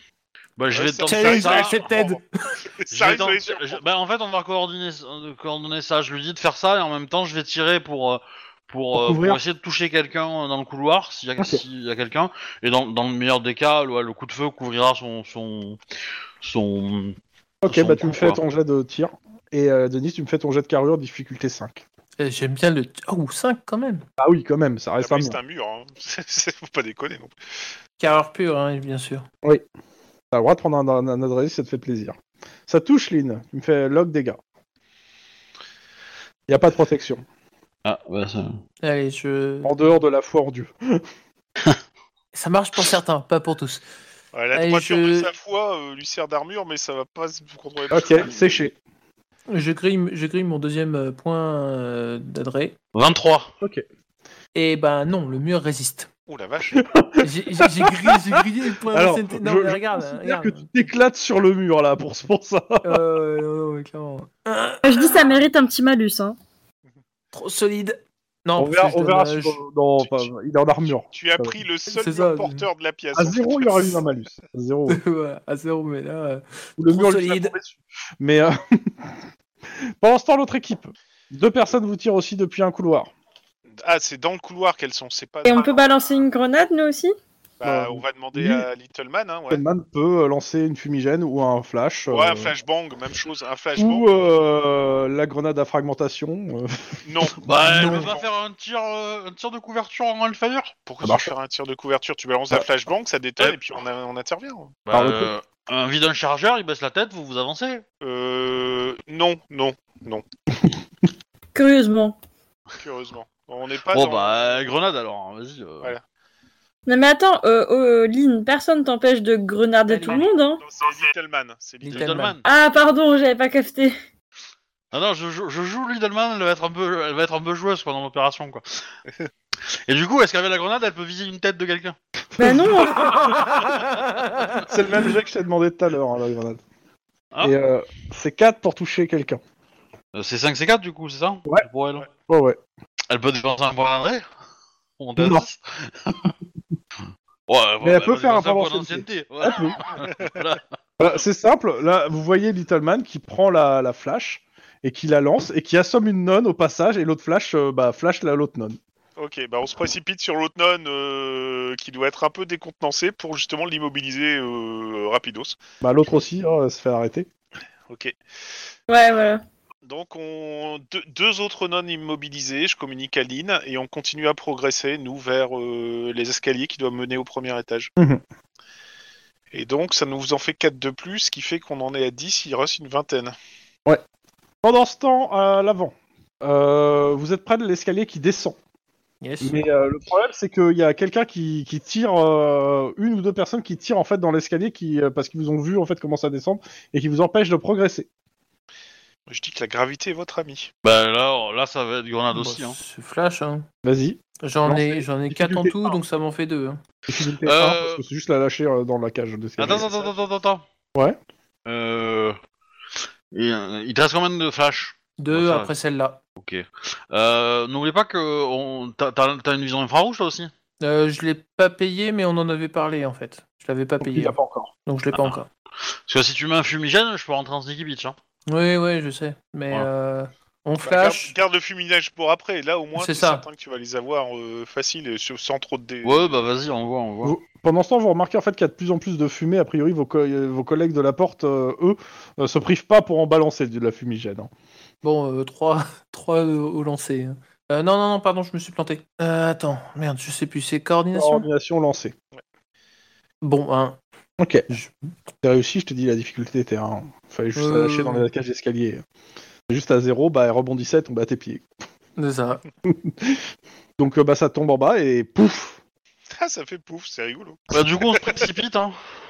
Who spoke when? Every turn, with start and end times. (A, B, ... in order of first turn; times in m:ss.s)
0:00.6-0:01.8 A
0:00.7-0:02.2 B
0:01.0-0:02.6 C
0:02.7-0:03.8 B
0:02.9-0:15.8 A
0:08.9-0:09.4 D
0:11.4-0:11.6 D
0:16.4-0:18.4 A
0:17.6-0:21.8 D
0:22.2-0:24.0 C
0:24.2-0:25.4 D
0:25.0-0:27.3 B
0:28.0-0:29.2 C
0:30.3-0:32.1 D
0:32.7-0:34.4 D
0:36.5-0:37.2 D
0:37.8-0:38.6 A
0:38.8-0:39.8 C
0:39.6-0:41.0 D
0:42.3-0:43.8 C
0:44.3-0:48.6 B
0:44.5-0:45.3 C
0:47.9-0:48.7 D
0:49.5-0:52.8 C
0:52.9-0:53.5 A
0:54.5-0:56.1 C
0:56.3-0:56.8 B
0:56.7-1:03.0 D
0:57.2-1:00.6 C
1:02.8-1:05.3 C
1:04.8-1:06.4 E
1:07.3-1:09.6 C
1:08.6-1:11.6 D
1:10.0-1:10.3 B
1:10.9-1:14.0 B
1:11.9-1:12.7 C
1:13.2-1:15.0 D
1:14.9-1:17.5 C
1:16.8-1:19.2 D
1:20.0-1:23.1 D
1:23.8-1:25.8 B
1:25.4-1:27.1 E
1:27.6-1:29.6 B
1:27.6-1:28.6 D
1:29.5-1:32.5 D
1:32.1-1:34.1 B
1:33.8-1:38.1 D
1:37.0-1:38.3 B
1:37.4-1:40.7 A
1:40.8-1:44.8 B
1:41.0-1:41.3 D
1:44.9-1:47.8 A
1:44.9-1:45.3 D
1:48.0-1:50.2 B
1:51.5-1:52.2 E
1:52.8-1:54.7 B
1:53.9-1:55.9 A
1:56.9-2:00.6 E
1:59.9-2:00.2 C
2:00.6-2:02.1 B
2:01.8-2:02.4 C
2:01.9-2:02.4 A
2:02.4-2:04.0 E
2:04.9-2:08.7 A
2:09.9-2:12.0 A
2:12.4-2:12.7 D
2:12.4-2:13.2 E
2:13.3-2:13.7 C
2:14.7-2:16.6 D
2:17.4-2:19.4 D
2:20.1-2:22.1 A
2:22.3-2:22.6 D
2:23.1-2:24.2 A
2:25.0-2:26.3 A
2:25.2-2:25.4 D
2:27.5-2:30.6 A
2:27.8-2:29.8 D
2:31.0-2:38.8 D
2:39.2-2:45.6 B
2:45.8-2:47.3 D
2:47.9-2:48.1 B
2:48.9-2:49.4 E
2:49.8-2:57.9 B
2:58.0-2:58.2 D
2:59.5-3:03.3 B
3:04.6-3:08.6 D
3:09.2-3:09.6 C
3:09.4-3:18.1 D
3:19.3-3:20.7 B
3:20.8-3:22.8 A
3:22.3-3:23.6 C
3:23.8-3:26.0 D
3:24.4-3:26.8 C
3:27.1-3:29.9 D
3:27.4-3:28.0 A
3:29.6-3:30.6 A
3:29.8-3:30.1 B
3:31.6-3:32.4 A
3:33.3-3:35.7 A
3:35.2-3:36.2 C
3:36.4-3:40.5 A
3:40.8-3:45.5 C
3:44.0-3:44.7 D
3:46.1-3:48.2 A
3:48.5-3:51.3 C
3:50.8-3:56.4 B
3:52.9-3:53.4 C
3:56.0-3:57.3 A
3:57.2-4:04.5 D
4:05.0-4:11.5 C
4:11.1-4:12.1 D
4:13.4-4:14.0 C
4:14.4-4:14.6 D
4:14.7-4:14.9 C
4:15.4-4:19.0 D
4:17.6-4:18.3 C
4:19.7-4:21.6 D
4:22.2-4:22.6 C
4:22.9-4:23.4 D
4:24.0-4:25.8 D
4:26.3-4:28.5 B
4:27.7-4:29.0 A